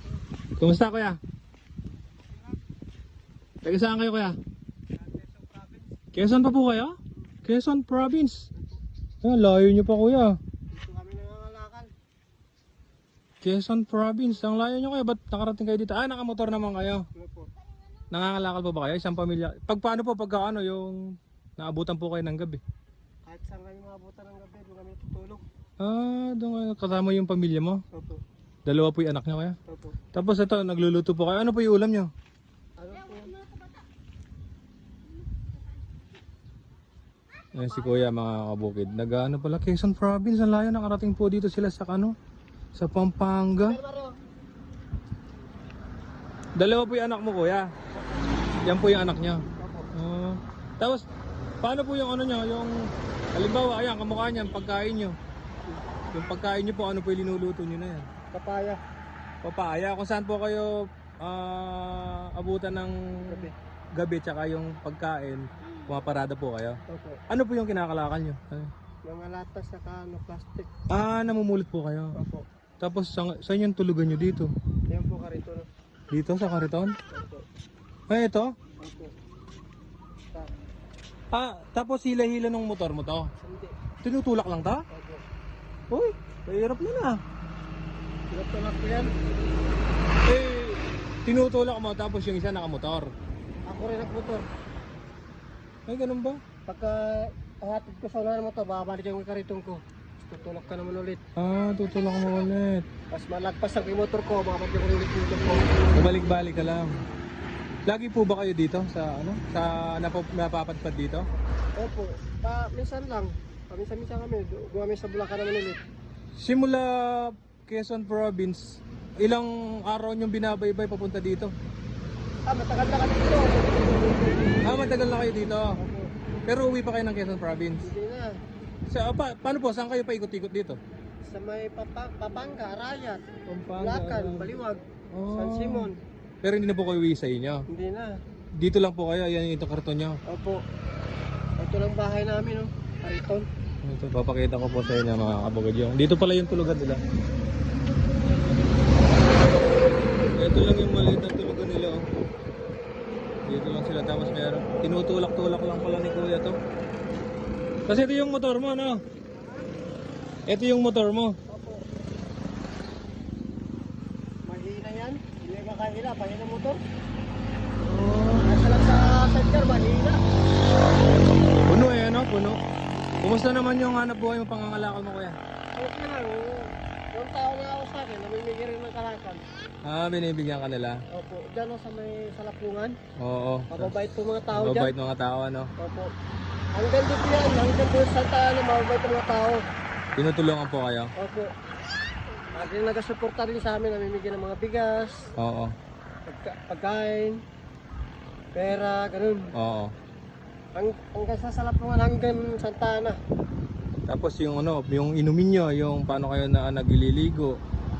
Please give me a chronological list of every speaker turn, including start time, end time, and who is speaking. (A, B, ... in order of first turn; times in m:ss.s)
0:00.6-0:01.2 A
0:03.6-0:04.4 A
0:05.0-0:05.9 B
0:06.1-0:08.4 A
0:08.5-0:08.8 B
0:09.2-0:10.4 A
0:10.7-0:11.9 B
0:13.4-0:17.0 A
0:17.1-0:17.5 B
0:18.1-0:21.0 A
0:21.6-0:22.6 A
0:23.2-0:25.4 B
0:25.8-0:27.8 A
0:27.9-0:28.2 B
0:28.6-0:29.6 A
0:29.7-0:30.0 B
0:30.1-0:32.1 A
0:32.8-0:33.4 B
0:37.5-0:42.1 A
0:42.7-0:43.8 A
0:43.6-0:44.2 B
0:46.6-0:47.7 A
0:48.6-0:49.4 A
0:49.6-0:49.9 B
0:49.9-0:51.0 A
0:51.6-0:52.7 A
0:53.3-0:55.1 A
0:56.1-0:58.1 A
0:58.3-0:58.8 B
0:59.4-1:08.7 A
1:03.2-1:03.5 B
1:06.9-1:07.2 B
1:09.0-1:10.7 B
1:10.9-1:12.1 A
1:12.1-1:12.4 B
1:12.8-1:14.5 A
1:14.9-1:15.7 B
1:16.1-1:17.0 A
1:17.1-1:17.4 B
1:18.1-1:18.5 A
1:18.8-1:19.1 B
1:21.3-1:23.3 A
1:23.4-1:23.7 B
1:24.0-1:24.8 A
1:24.9-1:25.2 B
1:25.9-1:27.2 A
1:28.3-1:29.1 B
1:30.2-1:33.1 A
1:33.7-1:34.4 B
1:35.9-1:36.4 A
1:36.7-1:41.2 B
1:41.4-1:42.8 A
1:43.1-1:45.7 B
1:45.9-1:46.9 A
1:47.9-1:51.3 A
1:51.8-1:55.8 B
1:56.4-1:58.6 A
1:59.2-2:01.5 A
2:02.5-2:04.7 B
2:04.6-2:05.7 A
2:05.8-2:06.0 B
2:06.5-2:07.8 A
2:07.8-2:08.3 B
2:08.9-2:10.8 A
2:11.2-2:13.2 B
2:13.5-2:14.6 A
2:13.7-2:15.9 B
2:15.1-2:15.9 A
2:16.4-2:17.6 A
2:17.7-2:18.1 B
2:18.6-2:20.2 A
2:20.3-2:20.6 B
2:21.6-2:23.4 B
2:23.8-2:27.0 A
2:30.4-2:32.0 A
2:33.5-2:36.6 A
2:37.9-2:39.0 A
2:40.5-2:41.3 A
2:41.5-2:41.8 B
2:44.5-2:46.8 B
2:47.8-2:48.5 A
2:48.4-2:50.2 B
2:51.7-2:52.6 A
2:53.2-2:55.3 A
2:55.7-2:56.6 B
2:57.1-2:59.4 B
2:59.8-3:01.0 A
3:01.1-3:03.0 B
3:03.2-3:03.9 A
3:03.7-3:04.9 B
3:04.5-3:05.7 A
3:05.8-3:06.1 B
3:06.8-3:09.6 B
3:10.2-3:11.1 A
3:11.2-3:11.5 B
3:12.5-3:15.3 B
3:15.4-3:15.7 A
3:16.3-3:17.4 B
3:18.6-3:19.5 B
3:19.6-3:19.9 A
3:20.7-3:23.2 B
3:24.1-3:27.5 A